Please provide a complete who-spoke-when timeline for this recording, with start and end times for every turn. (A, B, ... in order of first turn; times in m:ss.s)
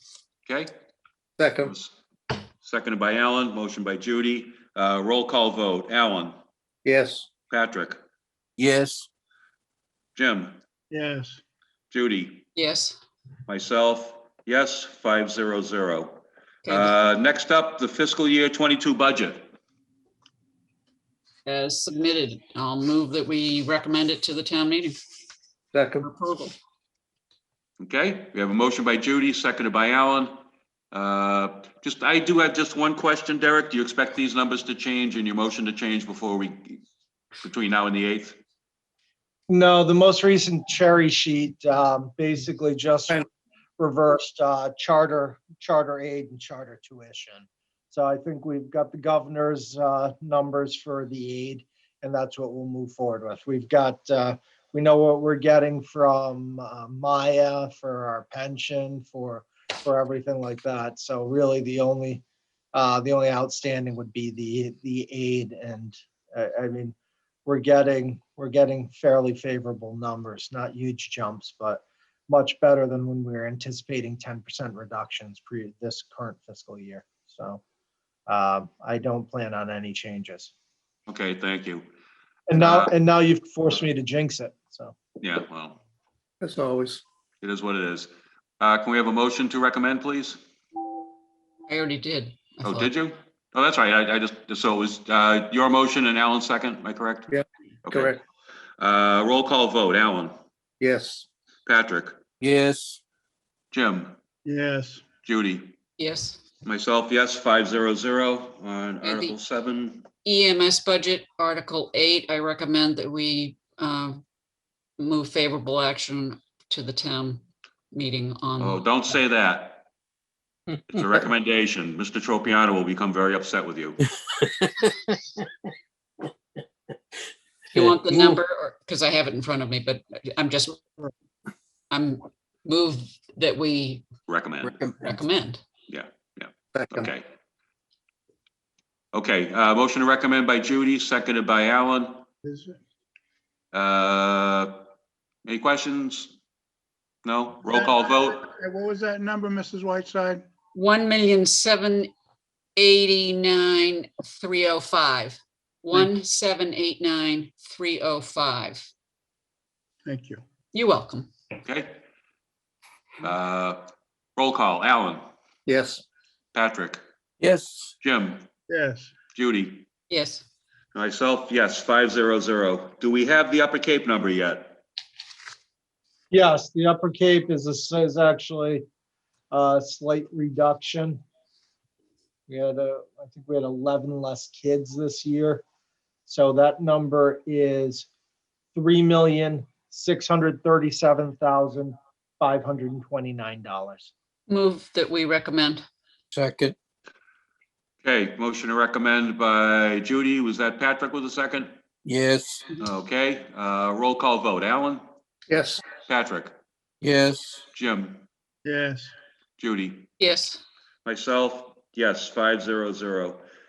0:01.4-0:01.7 A
0:01.6-0:01.9 B
0:02.6-0:06.4 B
0:06.8-0:07.3 A
0:07.5-0:08.0 B
0:08.6-0:09.1 C
0:10.2-0:10.6 B
0:10.9-0:11.4 D
0:11.9-0:12.5 B
0:12.5-0:13.0 E
0:13.5-0:19.4 B
0:16.6-0:16.9 E
0:21.4-0:25.0 E
0:25.7-0:26.1 A
0:26.0-0:26.5 E
0:27.8-0:30.3 B
0:30.9-0:36.8 B
0:37.4-0:38.4 B
0:39.5-0:43.2 F
0:43.8-1:02.2 F
1:02.7-1:06.9 F
1:07.4-1:17.6 F
1:18.3-1:20.5 F
1:21.1-1:21.8 B
1:22.5-1:24.9 F
1:22.5-1:22.9 B
1:25.2-1:25.8 B
1:26.4-1:27.0 A
1:27.4-1:30.4 B
1:31.7-1:32.9 E
1:32.6-1:37.3 B
1:37.3-1:38.2 A
1:37.8-1:38.1 B
1:38.8-1:40.3 B
1:40.8-1:41.2 A
1:41.6-1:42.1 B
1:42.4-1:43.0 C
1:43.7-1:44.2 B
1:44.4-1:45.0 D
1:45.2-1:45.7 B
1:46.0-1:46.4 E
1:46.6-1:50.1 B
1:49.0-1:49.3 E
1:50.2-1:54.2 E
1:55.0-1:57.4 E
1:57.9-1:58.8 E
1:58.6-1:59.8 B
2:00.9-2:04.0 B
2:07.7-2:10.8 E
2:11.9-2:14.0 E
2:14.3-2:14.8 B
2:14.6-2:15.2 C
2:15.0-2:15.6 E
2:15.9-2:17.2 B
2:16.7-2:17.1 A
2:19.1-2:22.2 B
2:22.4-2:22.8 D
2:23.7-2:24.8 B
2:25.4-2:26.3 B
2:27.2-2:28.4 B
2:27.7-2:30.4 D
2:30.7-2:32.1 E
2:32.8-2:38.9 E
2:40.0-2:40.4 D
2:40.7-2:41.3 E
2:41.6-2:41.9 B
2:43.2-2:43.8 B
2:44.4-2:45.2 B
2:45.6-2:46.0 A
2:46.5-2:47.0 B
2:47.4-2:47.9 C
2:48.0-2:48.4 B
2:48.7-2:49.1 D
2:49.3-2:49.8 B
2:50.1-2:50.4 E
2:50.9-2:54.8 B
2:56.3-2:58.8 F
2:59.5-3:01.2 F
3:02.5-3:05.6 F
3:06.2-3:08.1 F
3:08.7-3:14.1 F
3:14.5-3:15.8 E
3:16.3-3:16.7 C
3:18.0-3:21.7 B
3:22.0-3:22.6 C
3:22.8-3:25.0 B
3:25.5-3:25.8 A
3:26.0-3:26.5 B
3:27.0-3:27.6 C
3:27.7-3:28.2 B
3:28.6-3:29.1 D
3:29.6-3:30.1 B
3:30.2-3:30.6 E
3:31.0-3:33.4 B